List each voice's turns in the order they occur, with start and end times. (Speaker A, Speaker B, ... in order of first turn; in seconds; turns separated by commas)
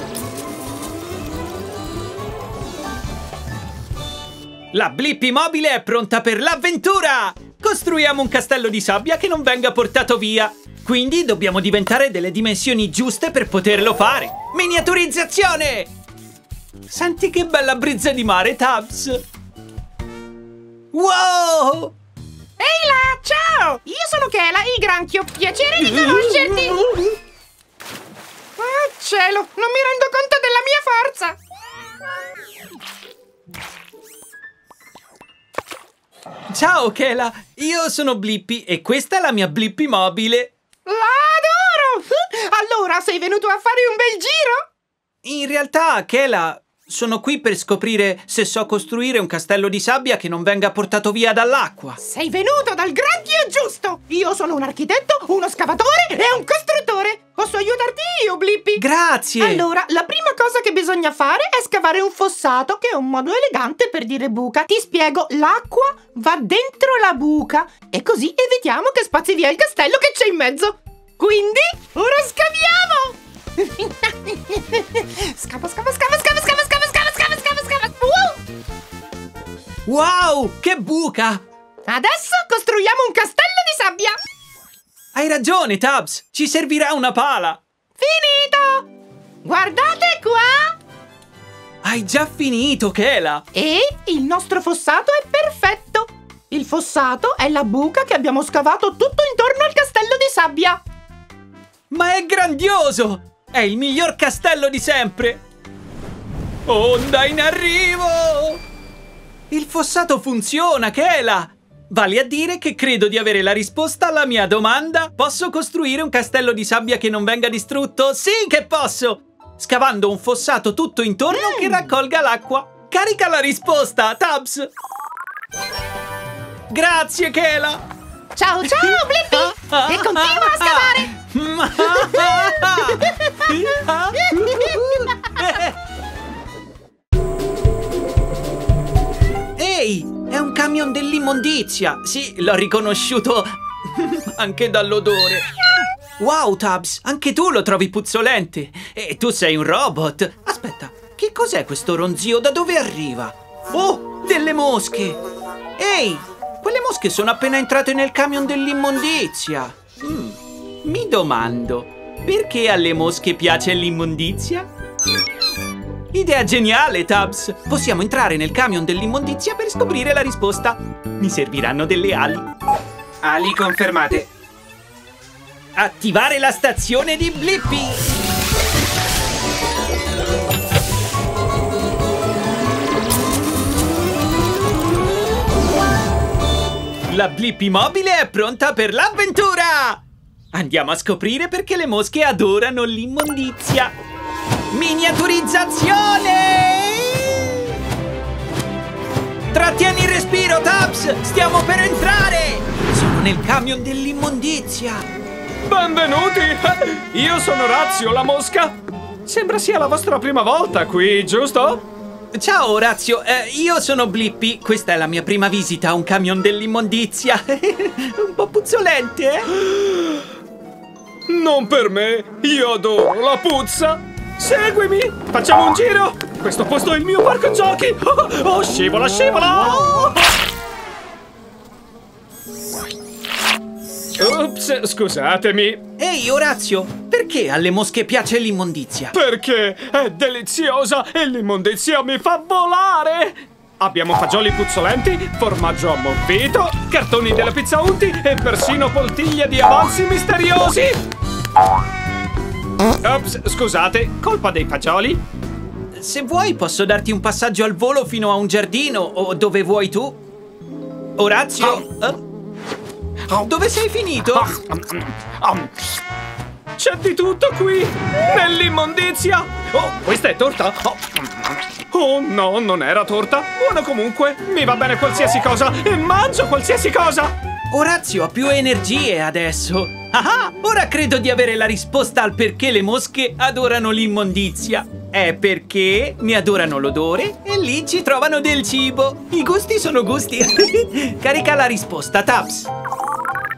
Speaker A: 4.7-15.9, Speaker A: 16.9-19.2, Speaker A: 20.9-21.9, Speaker B: 22.6-26.8, Speaker B: 28.6-31.4, Speaker A: 36.5-40.5, Speaker B: 40.9-44.6, Speaker A: 45.2-52.0, Speaker B: 52.0-58.8, Speaker A: 58.8-59.6, Speaker B: 59.4-78.4, Speaker A: 79.8-81.4, Speaker B: 81.9-84.2, Speaker A: 85.1-87.6, Speaker B: 88.0-88.9, Speaker B: 89.4-90.8, Speaker A: 91.8-93.5, Speaker B: 93.5-100.8, Speaker A: 101.9-105.4, Speaker A: 106.7-108.6, Speaker A: 109.5-124.7, Speaker B: 121.3-121.7, Speaker A: 126.7-127.8, Speaker B: 128.3-131.1, Speaker A: 128.9-135.8, Speaker B: 131.8-133.7, Speaker B: 134.3-135.3, Speaker A: 139.6-145.5, Speaker A: 146.2-155.2, Speaker A: 155.8-164.7, Speaker A: 166.1-172.5, Speaker C: 173.2-174.3, Speaker A: 175.8-178.0, Speaker A: 187.1-194.0, Speaker A: 194.7-197.7, Speaker A: 199.5-205.1, Speaker C: 205.7-211.8, Speaker A: 212.3-219.5, Speaker C: 219.7-220.2, Speaker C: 221.3-230.1, Speaker C: 234.2-235.8, Speaker A: 236.0-239.1, Speaker C: 239.1-251.0, Speaker C: 253.0-255.2, Speaker A: 255.9-260.2, Speaker A: 261.2-262.2, Speaker A: 263.3-264.5, Speaker C: 264.3-265.7, Speaker C: 266.8-277.3, Speaker A: 277.7-292.7